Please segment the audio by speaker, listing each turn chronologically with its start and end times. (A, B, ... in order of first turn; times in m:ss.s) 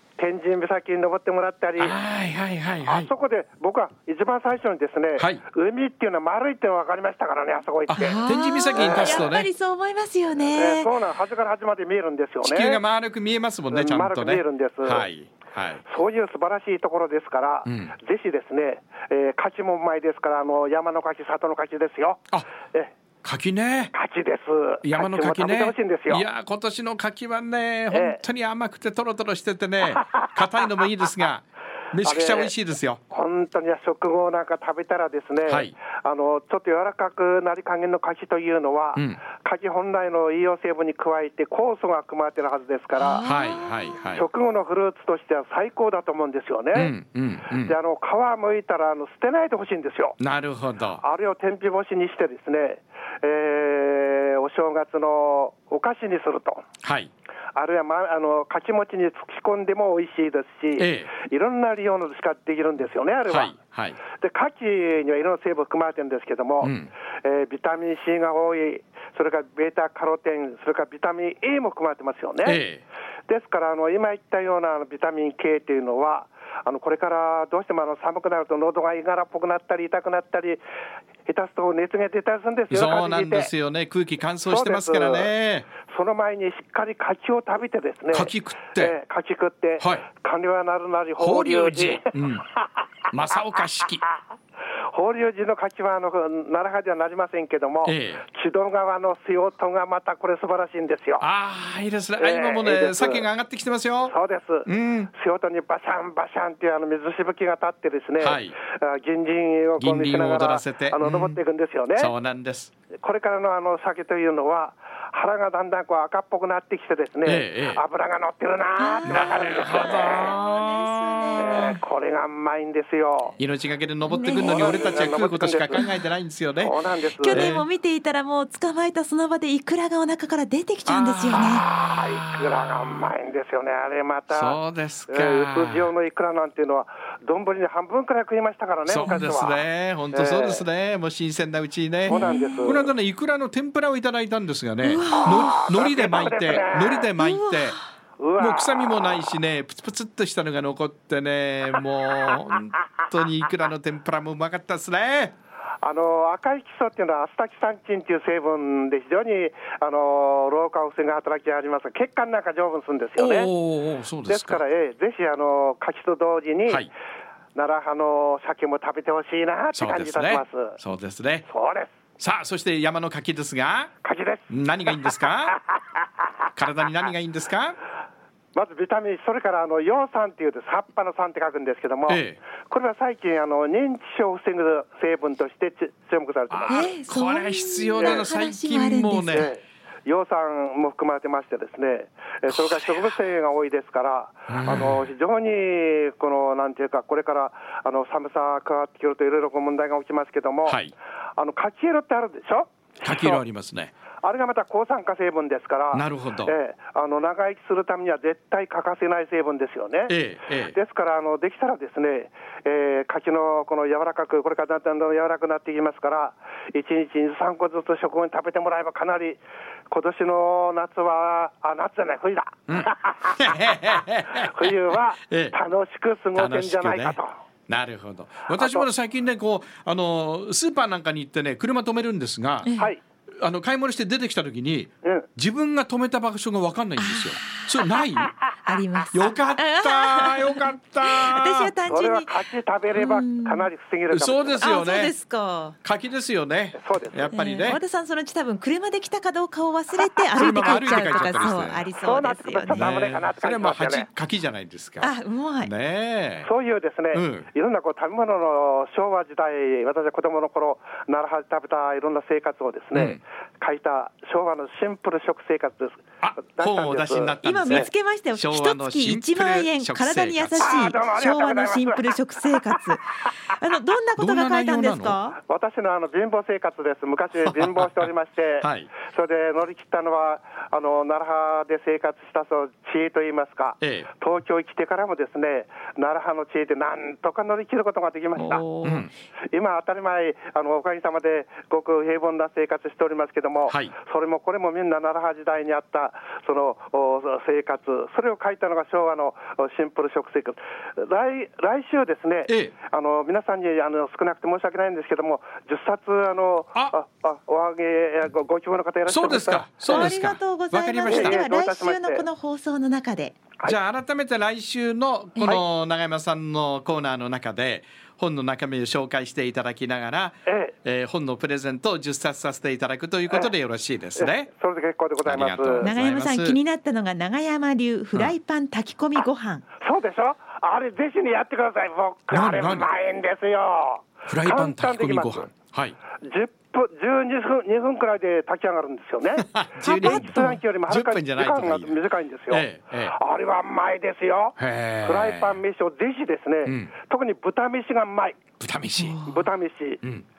0:00.2-0:02.0 A
0:01.8-0:03.1 B
0:02.8-0:08.2 A
0:05.2-0:05.4 B
0:07.9-0:09.5 B
0:07.9-0:10.9 C
0:08.7-0:09.3 A
0:10.5-0:12.8 A
0:12.4-0:15.8 B
0:13.7-0:15.1 A
0:15.8-0:22.9 A
0:17.7-0:17.9 B
0:23.2-0:23.9 B
0:23.9-0:26.2 A
0:24.8-0:33.0 B
0:27.9-0:28.2 A
0:30.0-0:30.3 A
0:32.0-0:32.5 A
0:33.1-0:43.3 A
0:35.5-0:35.7 B
0:42.9-0:43.7 C
0:43.2-0:44.2 B
0:44.1-0:46.9 A
0:46.7-0:47.8 B
0:47.6-0:50.2 A
0:50.2-0:51.0 B
0:51.0-0:56.6 A
0:56.8-0:57.1 B
0:57.5-1:03.6 A
1:00.8-1:01.1 B
1:03.3-1:04.0 B
1:04.1-1:12.6 A
1:06.6-1:06.9 B
1:12.4-1:12.8 B
1:13.3-1:20.6 A
1:21.3-1:23.5 A
1:22.7-1:25.7 B
1:24.4-1:25.3 A
1:25.8-1:32.1 A
1:28.1-1:29.0 B
1:29.8-1:30.1 B
1:31.2-1:32.4 B
1:33.1-1:34.1 B
1:34.9-1:41.3 A
1:37.8-1:38.2 B
1:41.2-1:44.1 B
1:42.2-1:43.3 A
1:44.0-1:52.1 A
1:44.7-1:45.1 B
1:48.2-1:48.6 B
1:49.8-1:51.4 B
1:52.0-1:52.7 B
1:53.0-2:00.2 A
1:57.2-1:57.8 B
1:58.8-2:01.8 C
1:59.1-2:01.4 B
2:01.4-2:03.4 A
2:03.4-2:06.8 B
2:04.1-2:05.1 C
2:04.4-2:05.9 A
2:06.6-2:07.6 A
2:07.2-2:11.6 C
2:07.3-2:07.7 B
2:10.9-2:13.0 B
2:11.8-2:20.7 A
2:14.3-2:15.9 B
2:18.9-2:27.8 B
2:22.1-2:22.9 A
2:22.1-2:22.8 C
2:24.8-2:25.7 C
2:25.2-2:27.1 A
2:27.2-2:27.8 C
2:28.2-2:29.1 A
2:28.4-2:35.4 B
2:35.8-2:43.5 A
2:43.2-2:44.6 B
2:44.2-2:46.9 A
2:47.6-2:50.8 A
2:49.7-2:51.5 B
2:51.5-2:51.9 A
2:52.2-2:53.9 B
2:54.0-2:55.6 A
2:54.5-2:55.6 B
2:56.6-2:57.8 B
2:58.5-3:07.0 A
3:02.1-3:02.4 B
3:06.5-3:09.5 B
3:06.7-3:09.5 C
3:08.0-3:08.3 A
3:09.3-3:20.8 A
3:12.5-3:13.1 B
3:14.5-3:15.1 B
3:20.7-3:20.9 B
3:21.4-3:23.4 A
3:23.0-3:23.9 B
3:24.2-3:30.2 A
3:25.9-3:26.5 B
3:30.1-3:30.8 B
3:30.7-3:43.6 A
3:42.7-3:45.6 B
3:44.5-3:47.4 A
3:46.4-3:52.7 B
3:48.6-3:48.9 A
3:52.6-3:52.9 C
3:52.8-3:53.0 A
3:53.4-3:58.3 B
3:55.0-3:55.3 A
3:57.0-3:58.1 C
3:58.6-4:02.4 C
3:59.1-4:01.7 B
4:01.9-4:04.7 A
4:02.9-4:03.7 C
4:04.1-4:05.2 B
4:04.6-4:05.8 C
4:05.8-4:07.8 B
4:06.8-4:07.4 A
4:07.3-4:12.9 C
4:10.3-4:11.9 B
4:10.6-4:11.3 A
4:12.0-4:14.1 A
4:12.7-4:16.5 B
4:15.0-4:15.7 C
4:16.4-4:27.9 A
4:17.1-4:17.5 B
4:22.9-4:23.2 B
4:26.2-4:30.8 B
4:27.4-4:35.4 C
4:30.6-4:32.8 A
4:34.2-4:35.2 B
4:35.4-4:48.6 A
4:37.4-4:38.1 B
4:38.6-4:38.9 B
4:43.8-4:44.1 B
4:48.4-4:49.1 C
4:48.8-4:49.1 B
4:49.5-5:10.1 A
4:53.7-4:53.9 B
5:02.5-5:02.7 B
5:09.1-5:11.4 B
5:09.8-5:13.4 C
5:11.1-5:12.3 A
5:13.6-5:24.5 B
5:15.4-5:15.6 C
5:20.5-5:20.8 A
5:24.2-5:25.9 A
5:25.2-5:26.6 B
5:25.8-5:29.6 C
5:29.8-5:35.5 A
5:32.3-5:32.9 B
5:34.3-5:36.0 B
5:36.2-5:48.4 A
5:39.4-5:43.2 B
5:39.8-5:40.6 C
5:44.6-5:45.6 B
5:46.6-5:46.9 B
5:48.6-5:49.2 B
5:49.0-5:49.4 C
5:49.2-5:50.0 A